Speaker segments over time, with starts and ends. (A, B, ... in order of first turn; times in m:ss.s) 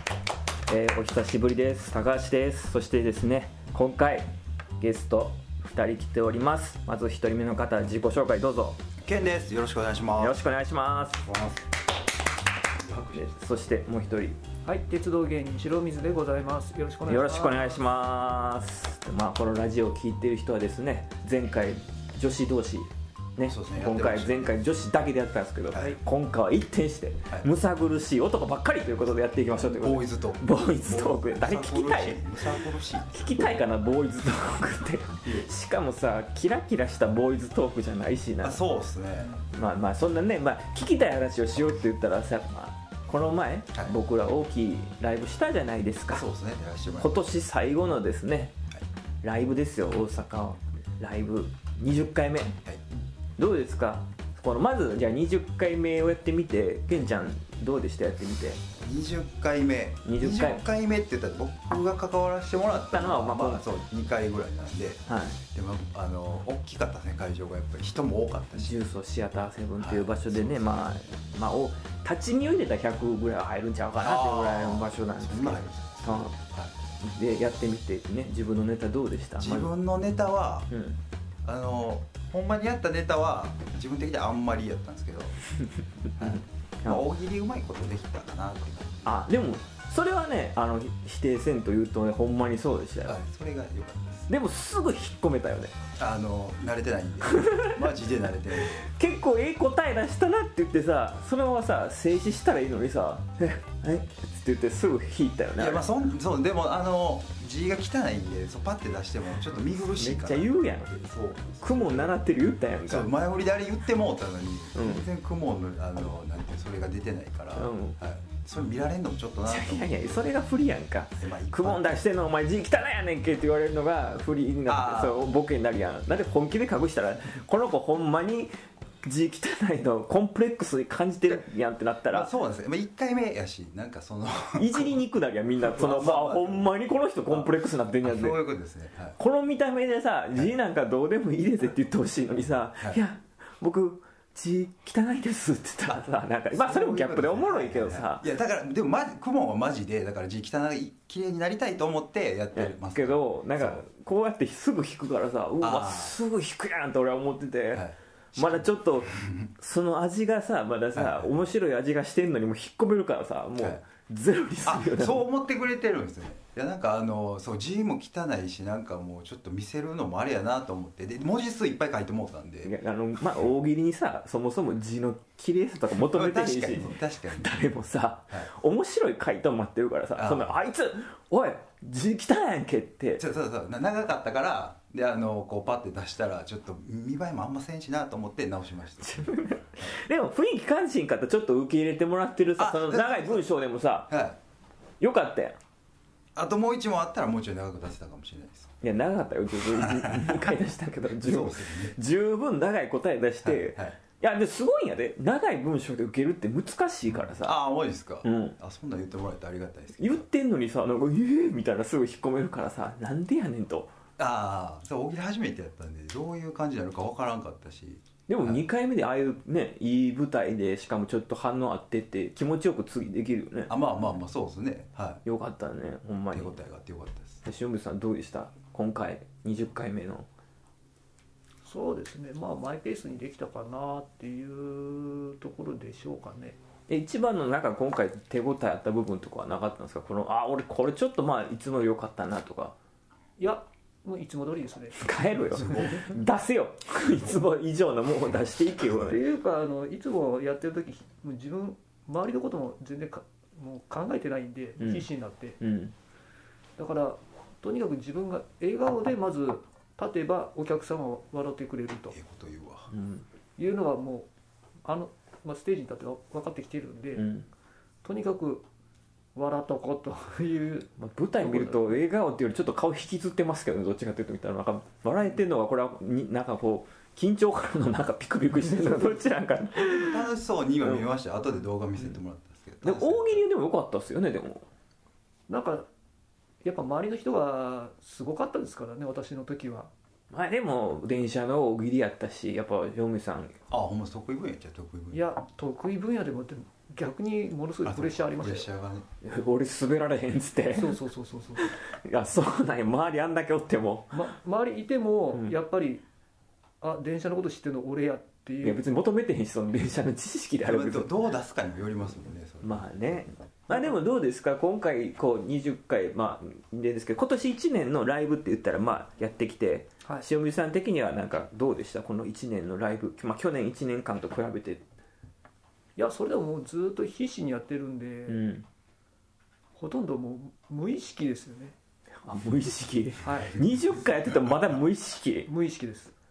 0:00.7-0:04.3 A
0:04.8-0:08.8 A
0:09.0-0:10.4 B
0:10.2-0:11.2 A
0:11.2-0:11.6 B
0:12.7-0:13.3 B
0:13.1-0:14.4 A
0:14.6-0:17.8 C
0:17.1-0:32.4 A
0:23.4-0:24.6 B
0:25.7-0:26.0 B
0:29.5-0:33.3 B
0:33.1-0:38.6 A
0:38.4-0:39.4 B
0:39.5-0:46.2 A
0:46.1-0:47.2 B
0:47.0-0:48.5 A
0:49.2-0:52.6 A
0:53.4-0:58.6 A
0:58.8-1:08.9 B
1:00.0-1:00.6 A
1:02.8-1:03.6 A
1:05.1-1:05.4 A
1:08.6-1:16.4 A
1:09.8-1:11.1 B
1:14.0-1:16.7 B
1:17.0-1:19.7 A
1:19.4-1:20.7 B
1:20.7-1:21.0 A
1:21.4-1:25.3 B
1:26.2-1:29.2 B
1:26.2-1:27.0 A
1:29.0-1:33.2 A
1:33.0-1:34.3 B
1:34.3-1:35.8 A
1:36.0-1:38.9 B
1:37.3-1:37.8 A
1:38.8-1:45.8 A
1:45.6-1:52.2 B
1:50.0-1:51.0 A
1:51.6-1:53.1 A
1:52.9-2:00.2 B
1:54.7-1:55.0 A
1:57.6-1:58.0 A
1:59.4-2:12.3 A
2:01.2-2:01.9 B
2:04.7-2:05.3 B
2:12.1-2:15.0 B
2:14.6-2:18.4 A
2:15.7-2:16.8 B
2:18.0-2:19.2 B
2:19.2-2:28.3 A
2:25.9-2:33.8 B
2:32.5-2:45.2 A
2:35.6-2:36.2 B
2:37.7-2:39.5 B
2:40.9-2:41.4 B
2:44.6-2:52.7 B
2:52.6-3:03.2 A
2:56.0-2:57.6 B
3:00.2-3:00.6 B
3:03.2-3:10.0 B
3:09.0-3:14.1 A
3:12.6-3:13.5 B
3:14.1-3:14.4 B
3:15.0-3:15.6 A
3:16.4-3:18.8 B
3:18.8-3:27.6 A
3:19.6-3:20.6 B
3:21.2-3:22.0 B
3:23.4-3:24.0 B
3:27.1-3:30.2 B
3:28.2-3:28.6 A
3:30.0-3:33.9 A
3:34.2-3:38.6 B
3:38.3-3:43.7 A
3:43.7-3:45.2 B
3:45.2-3:46.6 A
3:46.3-3:47.4 B
3:47.4-3:50.3 A
3:51.6-3:56.6 C
3:56.9-4:02.7 A
4:03.4-4:05.9 C
4:05.0-4:09.2 A
4:05.5-4:06.1 B
4:09.0-4:15.6 C
4:14.8-4:15.1 A
4:15.6-4:15.9 A
4:16.8-4:22.2 C
4:22.1-4:22.9 B
4:22.9-4:23.2 A
4:23.6-4:24.3 C
4:24.8-4:27.3 C
4:27.2-4:27.5 A
4:28.0-4:28.6 C
4:29.3-4:32.0 C
4:31.0-4:40.2 A
4:38.6-4:39.3 C
4:39.8-4:43.4 B
4:42.8-4:44.6 A
4:45.5-4:45.9 C
4:46.6-4:49.9 C
4:50.3-4:53.6 A
4:53.7-4:55.2 B
4:55.1-4:58.7 C
4:57.8-4:59.1 B
4:59.2-5:01.0 A
5:00.7-5:01.7 C
5:01.6-5:04.3 A
5:04.1-5:06.0 C
5:06.8-5:08.8 C
5:08.6-5:11.1 A
5:10.6-5:12.9 B
5:12.6-5:24.8 A
5:13.7-5:14.0 C
5:26.0-5:28.4 C
5:28.3-5:28.6 A
5:29.8-5:31.8 C
5:32.2-5:35.5 A
5:33.2-5:33.6 C
5:35.5-5:36.1 C